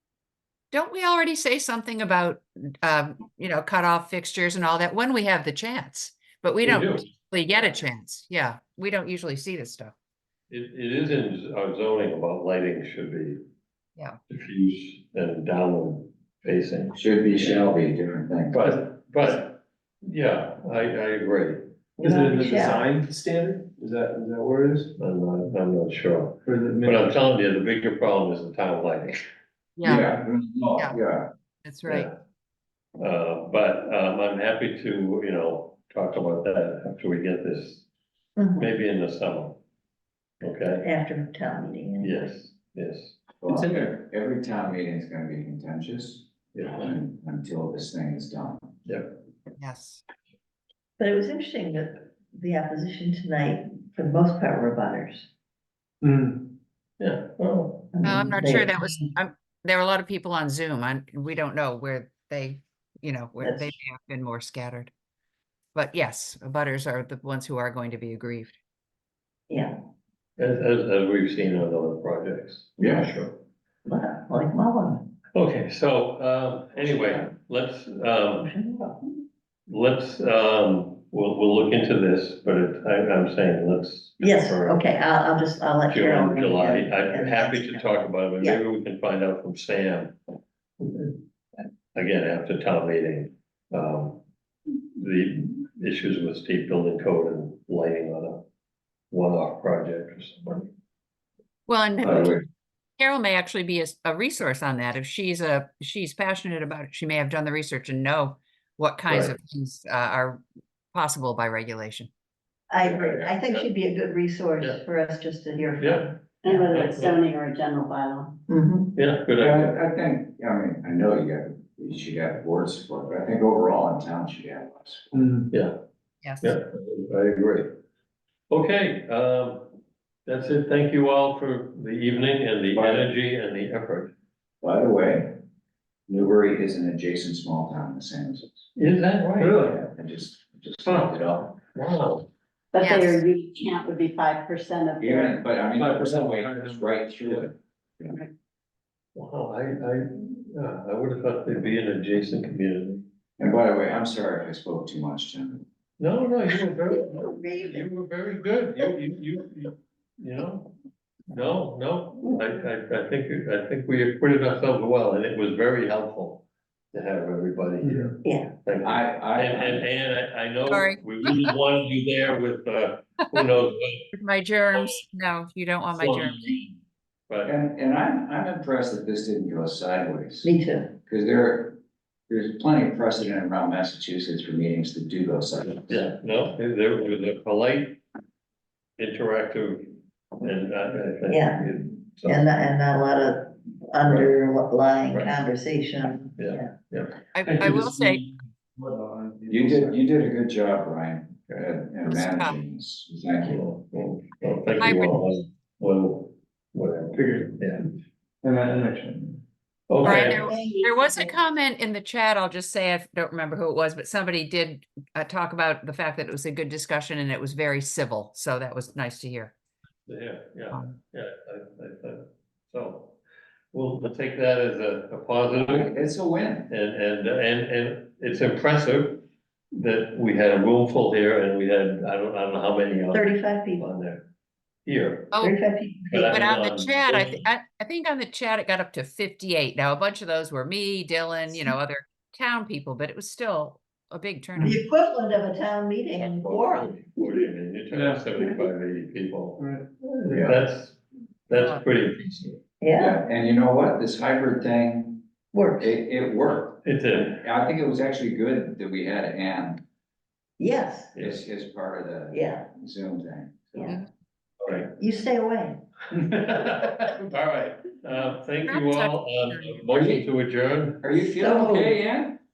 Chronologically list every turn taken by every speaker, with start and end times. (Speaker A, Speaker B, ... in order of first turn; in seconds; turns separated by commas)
Speaker A: 0.7-9.9, Speaker B: 6.6-7.1, Speaker B: 10.5-13.4, Speaker B: 14.3-17.8, Speaker C: 16.9-18.7, Speaker B: 18.5-21.6, Speaker D: 22.0-24.9, Speaker E: 22.0-22.8, Speaker B: 25.0-29.2, Speaker D: 26.4-27.2, Speaker A: 29.8-30.1, Speaker C: 29.8-31.3, Speaker A: 31.6-32.1, Speaker B: 31.9-32.2, Speaker B: 33.0-37.9, Speaker E: 38.4-38.7, Speaker B: 38.6-39.6, Speaker B: 40.4-40.8, Speaker E: 40.8-42.2, Speaker B: 42.0-43.2, Speaker C: 43.4-48.8, Speaker D: 43.5-43.9, Speaker B: 46.5-46.9, Speaker B: 48.8-49.1, Speaker A: 49.6-50.0, Speaker E: 51.0-55.3, Speaker D: 56.0-56.5, Speaker B: 57.0-57.9, Speaker E: 57.9-58.8, Speaker A: 58.0-64.9, Speaker E: 63.4-63.7, Speaker A: 65.7-68.5, Speaker E: 69.5-69.7, Speaker B: 70.4-73.3, Speaker C: 72.8-73.1, Speaker E: 73.8-75.1, Speaker B: 75.3-78.5, Speaker E: 78.4-79.1, Speaker B: 79.7-84.9, Speaker E: 84.2-88.6, Speaker B: 85.9-90.2, Speaker B: 90.8-91.2, Speaker B: 91.9-94.2, Speaker B: 95.0-98.4, Speaker B: 99.1-100.7, Speaker A: 101.7-102.4, Speaker C: 102.0-102.4, Speaker A: 103.0-112.1, Speaker B: 109.1-109.3, Speaker E: 112.7-116.3, Speaker B: 112.8-113.7, Speaker B: 115.8-117.2, Speaker F: 116.4-118.4, Speaker E: 118.5-118.9, Speaker B: 119.0-119.7, Speaker C: 119.4-125.2, Speaker D: 125.1-125.5, Speaker A: 126.2-126.5, Speaker B: 126.4-127.7, Speaker B: 128.5-129.7, Speaker B: 130.2-134.1, Speaker C: 132.7-133.0, Speaker C: 134.6-135.3, Speaker C: 136.1-138.7, Speaker B: 138.7-139.6, Speaker D: 139.4-139.8, Speaker C: 139.6-141.5, Speaker B: 140.8-141.1, Speaker B: 141.7-142.3, Speaker F: 142.7-145.4, Speaker A: 142.8-143.2, Speaker C: 145.0-148.2, Speaker D: 145.8-146.9, Speaker B: 149.1-153.0, Speaker C: 153.4-155.6, Speaker B: 156.0-160.7, Speaker E: 156.9-157.9, Speaker B: 161.3-174.0, Speaker D: 167.8-168.1, Speaker E: 168.2-168.5, Speaker C: 168.8-169.9, Speaker A: 170.7-171.5, Speaker A: 174.1-176.6, Speaker B: 175.9-176.7, Speaker B: 177.3-177.6, Speaker C: 177.4-180.5, Speaker E: 180.4-180.9, Speaker C: 181.0-181.8, Speaker C: 182.3-186.0, Speaker B: 185.9-188.0, Speaker B: 189.0-192.5, Speaker E: 191.3-196.7, Speaker B: 194.0-194.3, Speaker B: 195.1-195.4, Speaker B: 196.4-197.2, Speaker A: 197.3-198.2, Speaker D: 197.4-200.0, Speaker C: 199.5-203.6, Speaker A: 202.1-202.6, Speaker B: 203.4-207.8, Speaker A: 204.8-205.4, Speaker D: 207.1-207.8, Speaker D: 208.4-209.4, Speaker B: 209.9-210.5, Speaker A: 210.0-219.5, Speaker E: 210.1-210.8, Speaker F: 210.6-210.9, Speaker B: 220.1-223.2, Speaker B: 223.7-225.9, Speaker C: 225.7-226.7, Speaker B: 226.7-234.2, Speaker E: 233.1-233.8, Speaker B: 234.8-235.3, Speaker A: 235.3-235.6, Speaker E: 235.4-236.3, Speaker B: 236.1-237.4, Speaker A: 236.3-244.8, Speaker E: 244.6-247.4, Speaker B: 246.2-252.6, Speaker D: 247.9-248.3, Speaker D: 249.6-249.8, Speaker C: 250.3-250.6, Speaker A: 251.5-251.8, Speaker E: 252.8-253.2, Speaker C: 253.0-255.2, Speaker E: 255.5-255.9, Speaker C: 255.8-259.8, Speaker B: 256.8-257.4, Speaker E: 260.6-261.1, Speaker B: 261.1-261.4, Speaker C: 261.2-263.9, Speaker E: 262.3-262.6, Speaker E: 263.7-264.0, Speaker B: 264.6-264.9, Speaker E: 264.9-265.8, Speaker B: 266.1-271.0, Speaker A: 268.7-270.2, Speaker C: 269.9-270.2, Speaker C: 271.0-272.4, Speaker E: 271.2-272.0